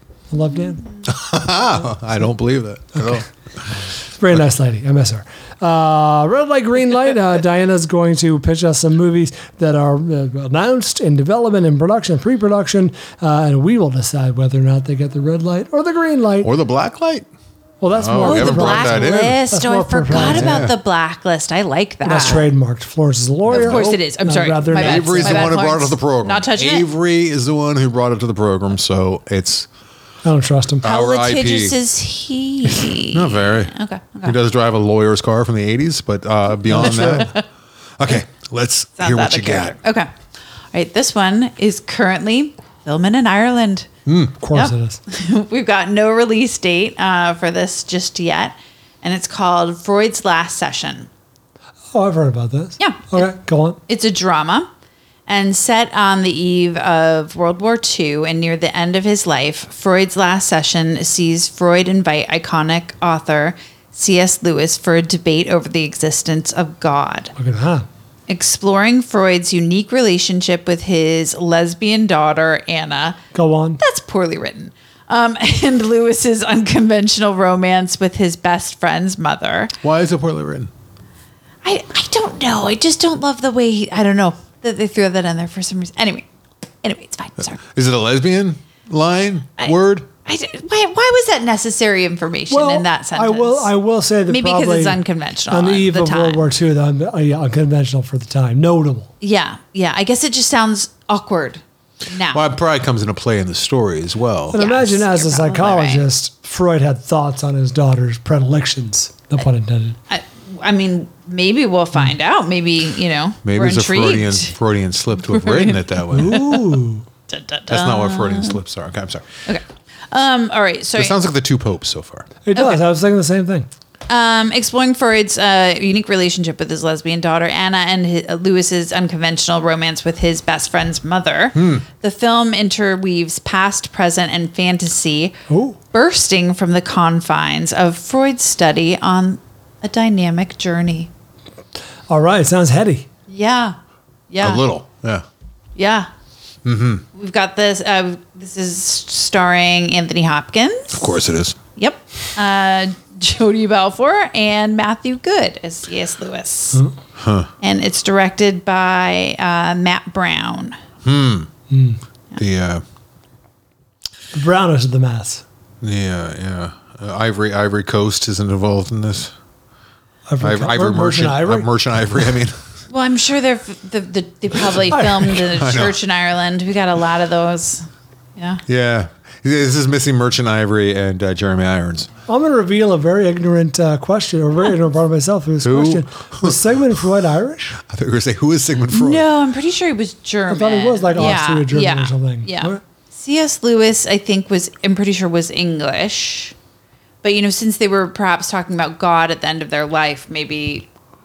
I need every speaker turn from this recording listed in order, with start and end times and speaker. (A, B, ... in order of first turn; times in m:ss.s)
0:00.3-0:00.8 A
0:01.1-0:03.3 B
0:02.9-0:03.2 A
0:04.2-0:16.5 A
0:16.4-0:17.3 B
0:17.8-0:20.6 A
0:18.0-0:19.4 B
0:18.2-0:22.5 C
0:20.1-0:20.8 B
0:22.0-0:25.5 A
0:23.5-0:26.9 C
0:23.5-0:23.9 B
0:24.7-0:29.7 B
0:30.2-0:30.9 A
0:30.8-0:31.8 B
0:30.8-0:34.4 C
0:32.7-0:37.4 B
0:36.7-0:37.3 A
0:37.0-0:37.4 C
0:38.0-0:39.8 B
0:39.0-0:40.1 C
0:40.7-0:43.9 C
0:44.1-0:44.4 B
0:44.4-0:45.0 A
0:44.5-0:51.1 C
0:51.9-0:53.8 A
0:52.8-0:53.3 C
0:53.9-0:54.7 C
0:55.3-1:07.3 C
1:07.4-1:07.9 A
1:08.3-1:13.2 C
1:13.3-1:13.8 A
1:13.8-1:19.7 C
1:19.8-1:20.7 B
1:21.6-1:26.3 C
1:26.8-1:27.6 C
1:27.6-1:30.1 B
1:29.6-1:33.7 C
1:32.5-1:39.1 A
1:34.3-1:36.5 C
1:39.2-1:42.4 C
1:42.3-1:44.6 B
1:44.5-1:50.0 A
1:44.5-1:46.0 C
1:50.1-1:54.6 C
1:53.4-1:56.4 B
1:55.2-1:56.6 C
1:56.1-1:57.0 A
1:57.3-1:58.6 C
1:57.7-1:59.4 B
1:59.5-2:01.2 C
2:01.0-2:02.4 B
2:02.4-2:03.7 A
2:02.5-2:02.8 C
2:04.1-2:15.4 C
2:11.5-2:11.8 B
2:15.5-2:15.8 A
2:15.9-2:21.1 C
2:22.1-2:23.1 A
2:23.3-2:23.8 C
2:24.3-2:24.7 C
2:24.4-2:25.2 B
2:25.8-2:26.1 C
2:26.6-2:27.0 B
2:27.1-2:31.2 C
2:30.9-2:31.6 B
2:31.8-2:36.8 C
2:37.2-2:37.5 B
2:37.6-2:40.8 C
2:41.0-2:41.5 B
2:41.7-2:42.0 A
2:42.4-2:42.8 B
2:44.3-2:45.4 A
2:45.8-2:49.3 B
2:50.3-2:51.7 A
2:50.4-2:52.6 B
2:52.9-2:57.8 C
2:54.7-2:56.0 B
2:54.9-2:55.3 A
2:58.4-2:58.6 C
2:58.7-3:02.1 B
3:02.3-3:07.8 A
3:05.6-3:06.7 B
3:07.8-3:09.3 B
3:08.9-3:16.6 C
3:10.5-3:12.8 A
3:17.2-3:20.9 C